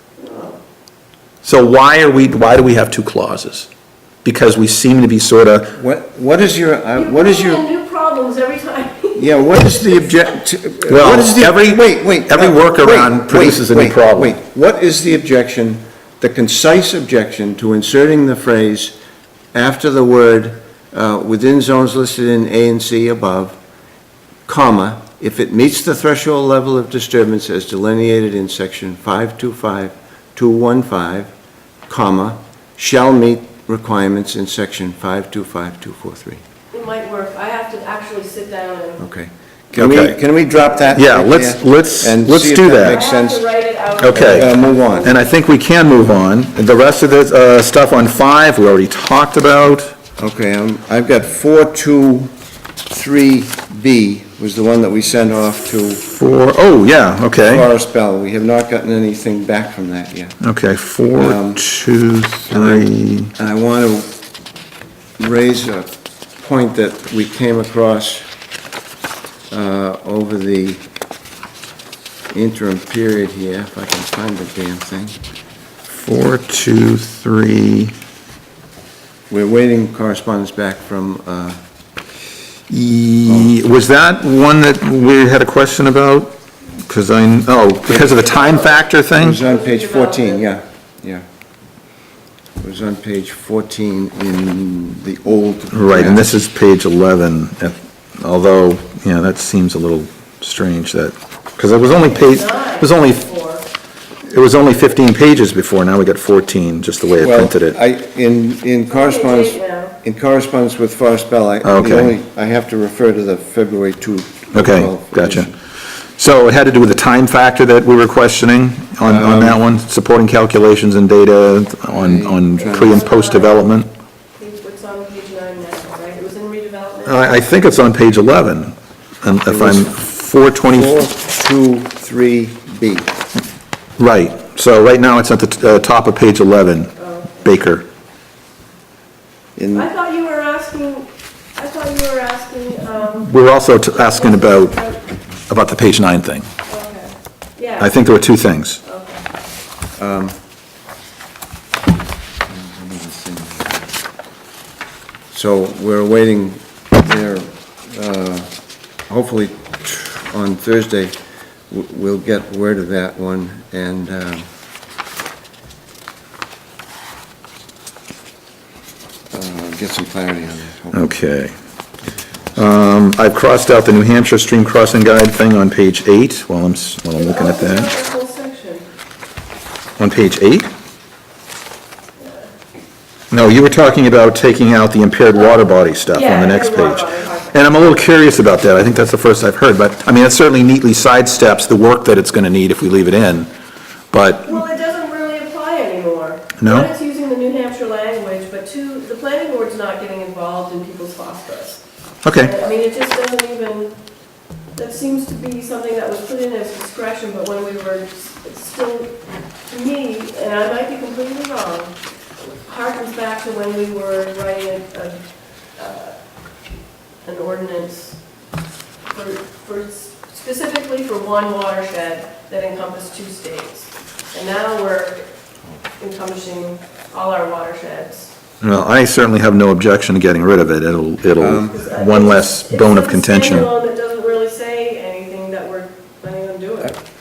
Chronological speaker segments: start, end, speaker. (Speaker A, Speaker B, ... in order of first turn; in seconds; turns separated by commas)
Speaker A: 0.2-0.6, Speaker B: 1.4-3.7, Speaker B: 4.2-5.8, Speaker C: 5.8-7.6, Speaker A: 7.0-10.2, Speaker C: 9.2-19.0, Speaker B: 10.9-14.4, Speaker C: 19.5-23.6, Speaker C: 24.5-31.3, Speaker C: 31.9-36.4, Speaker A: 36.7-39.0, Speaker C: 39.0-43.5, Speaker B: 39.7-40.2, Speaker A: 40.8-41.0, Speaker B: 40.9-43.0, Speaker A: 42.8-45.2, Speaker B: 44.0-44.5, Speaker C: 44.0-45.1, Speaker B: 45.0-49.9, Speaker C: 50.2-52.3, Speaker C: 52.9-56.1, Speaker B: 56.1-57.7, Speaker C: 57.5-60.4, Speaker B: 60.4-63.3, Speaker C: 61.2-61.6, Speaker C: 62.5-64.1, Speaker C: 65.2-65.9, Speaker C: 66.4-68.3, Speaker C: 69.5-70.8, Speaker C: 72.3-75.2, Speaker B: 75.9-77.9, Speaker C: 79.3-81.6, Speaker B: 82.7-86.3, Speaker B: 86.9-89.4, Speaker A: 87.9-90.4, Speaker C: 89.2-91.2, Speaker C: 92.6-96.3, Speaker B: 95.7-103.2, Speaker A: 102.0-103.7, Speaker B: 104.3-107.8, Speaker C: 107.2-115.5, Speaker A: 108.9-110.0, Speaker B: 111.6-112.1, Speaker B: 114.5-115.5, Speaker B: 116.2-123.9, Speaker C: 119.0-119.6, Speaker C: 121.9-123.0, Speaker A: 122.6-123.7, Speaker A: 124.4-127.3, Speaker B: 127.0-131.0, Speaker C: 129.5-129.9, Speaker C: 130.7-133.1, Speaker B: 134.0-137.8, Speaker A: 137.0-137.5, Speaker C: 139.6-139.9, Speaker A: 139.7-145.0, Speaker B: 143.2-144.8, Speaker B: 145.5-146.5, Speaker A: 146.7-148.1, Speaker B: 147.8-148.8, Speaker A: 148.8-149.2, Speaker C: 150.0-150.4, Speaker C: 152.5-153.9, Speaker C: 155.3-158.5, Speaker C: 159.1-161.2, Speaker C: 161.7-164.5, Speaker C: 169.3-171.1, Speaker B: 170.9-171.5, Speaker B: 172.6-177.9, Speaker A: 177.2-178.9, Speaker B: 180.0-180.7, Speaker A: 182.2-182.5, Speaker B: 183.3-193.5, Speaker A: 186.1-187.9, Speaker B: 194.1-194.6, Speaker A: 194.4-201.8, Speaker B: 196.6-196.9, Speaker B: 202.2-202.5, Speaker A: 202.3-204.0, Speaker A: 204.8-209.1, Speaker A: 209.7-211.9, Speaker A: 212.6-215.2, Speaker A: 215.8-216.2, Speaker A: 217.2-218.2, Speaker A: 219.1-225.3, Speaker A: 226.0-228.3, Speaker B: 228.6-233.7, Speaker C: 231.4-231.7, Speaker A: 231.7-236.9